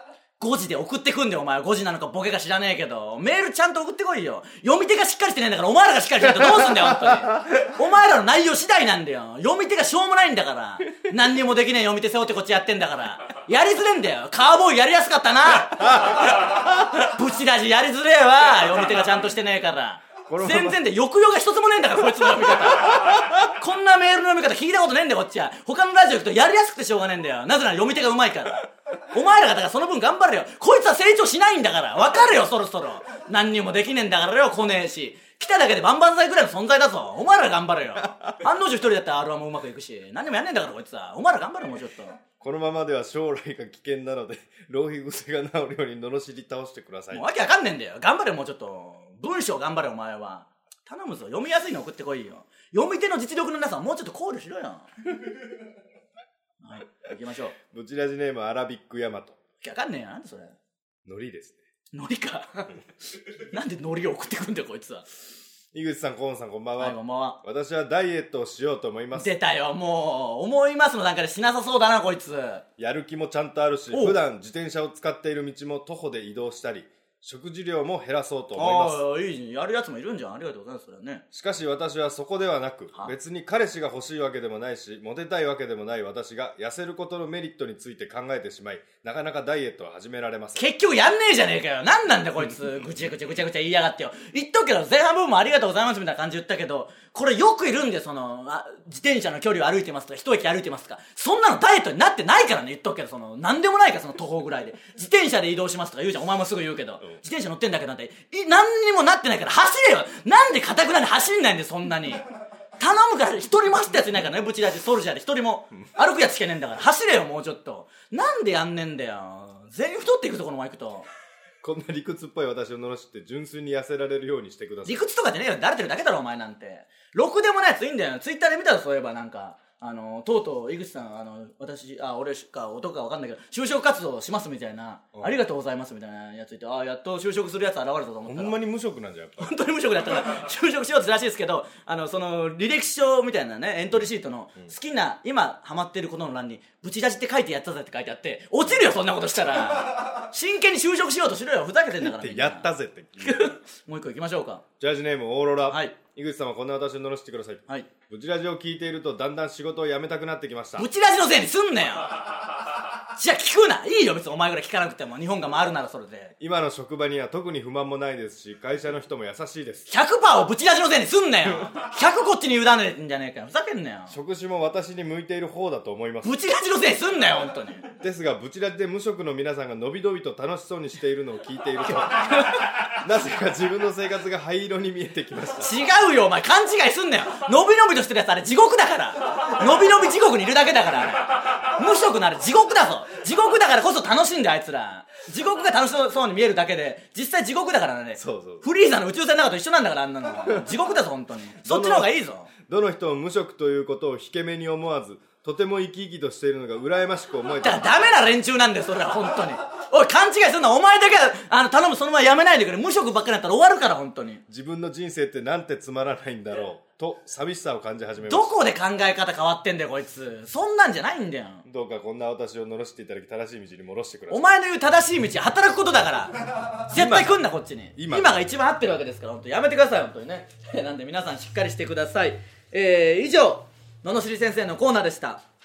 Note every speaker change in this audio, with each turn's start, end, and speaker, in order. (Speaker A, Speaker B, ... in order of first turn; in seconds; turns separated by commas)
Speaker A: 0.4-42.2, Speaker B: 15.8-16.6, Speaker B: 20.3-20.8, Speaker B: 22.4-23.3, Speaker B: 42.4-47.2, Speaker A: 47.1-54.9, Speaker A: 56.6-57.5, Speaker B: 57.6-59.4, Speaker A: 59.6-60.5, Speaker B: 61.0-61.6, Speaker A: 61.9-62.8, Speaker A: 63.4-65.1, Speaker B: 65.7-69.3, Speaker A: 66.8-67.4, Speaker A: 69.1-72.6, Speaker B: 72.8-79.0, Speaker A: 73.9-74.2, Speaker A: 78.5-81.2, Speaker B: 81.3-90.6, Speaker A: 90.5-112.2, Speaker A: 112.8-121.1, Speaker B: 121.6-125.0, Speaker A: 124.8-138.5, Speaker B: 138.2-139.6, Speaker A: 139.4-154.6, Speaker B: 152.0-153.6, Speaker B: 154.8-160.9, Speaker A: 155.7-155.9, Speaker A: 160.8-166.3, Speaker B: 166.4-169.9, Speaker A: 169.9-174.2, Speaker B: 174.1-176.3, Speaker A: 176.2-177.9, Speaker B: 178.0-185.7, Speaker A: 181.8-183.0, Speaker A: 185.6-202.5, Speaker B: 198.2-198.7, Speaker B: 200.4-200.7, Speaker B: 201.6-202.1, Speaker B: 202.6-208.0, Speaker A: 207.6-214.4, Speaker B: 214.5-218.5, Speaker A: 218.3-221.7, Speaker B: 221.6-224.5, Speaker A: 224.3-235.4, Speaker B: 226.9-227.4, Speaker B: 227.9-228.4